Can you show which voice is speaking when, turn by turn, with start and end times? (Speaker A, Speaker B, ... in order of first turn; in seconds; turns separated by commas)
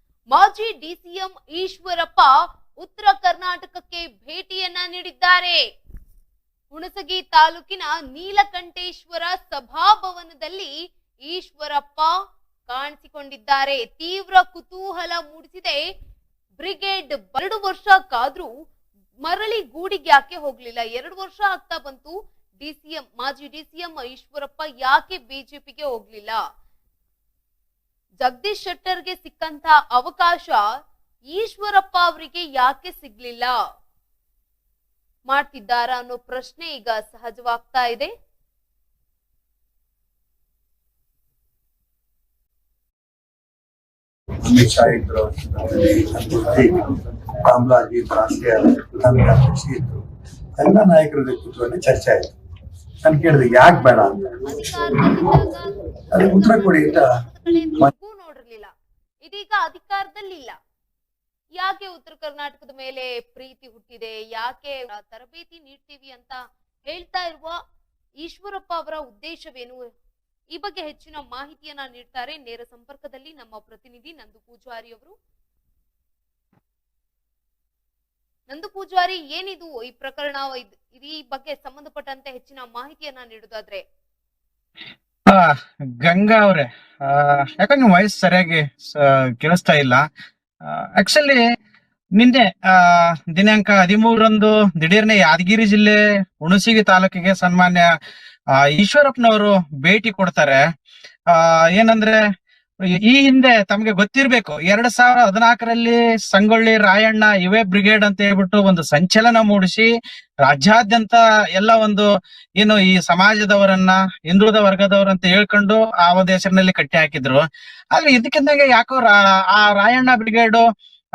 Speaker A: 0.3-2.3, Speaker A: 2.8-5.6, Speaker A: 6.7-10.7, Speaker A: 11.3-12.1, Speaker A: 12.7-15.8, Speaker A: 16.6-18.5, Speaker A: 19.2-26.4, Speaker A: 28.2-30.6, Speaker A: 31.3-33.6, Speaker A: 35.3-38.1, Speaker B: 44.4-50.0, Speaker B: 50.6-52.3, Speaker B: 53.0-55.4, Speaker A: 53.3-58.7, Speaker B: 56.1-57.1, Speaker B: 57.6-57.9, Speaker A: 59.2-60.5, Speaker A: 61.6-66.4, Speaker A: 66.9-67.6, Speaker A: 68.2-69.8, Speaker A: 70.5-75.1, Speaker A: 78.5-83.8, Speaker C: 86.0-90.0, Speaker C: 90.7-91.4, Speaker C: 92.2-97.9, Speaker C: 98.6-100.6, Speaker C: 101.3-102.2, Speaker C: 103.1-109.9, Speaker C: 110.4-112.1, Speaker C: 112.6-120.6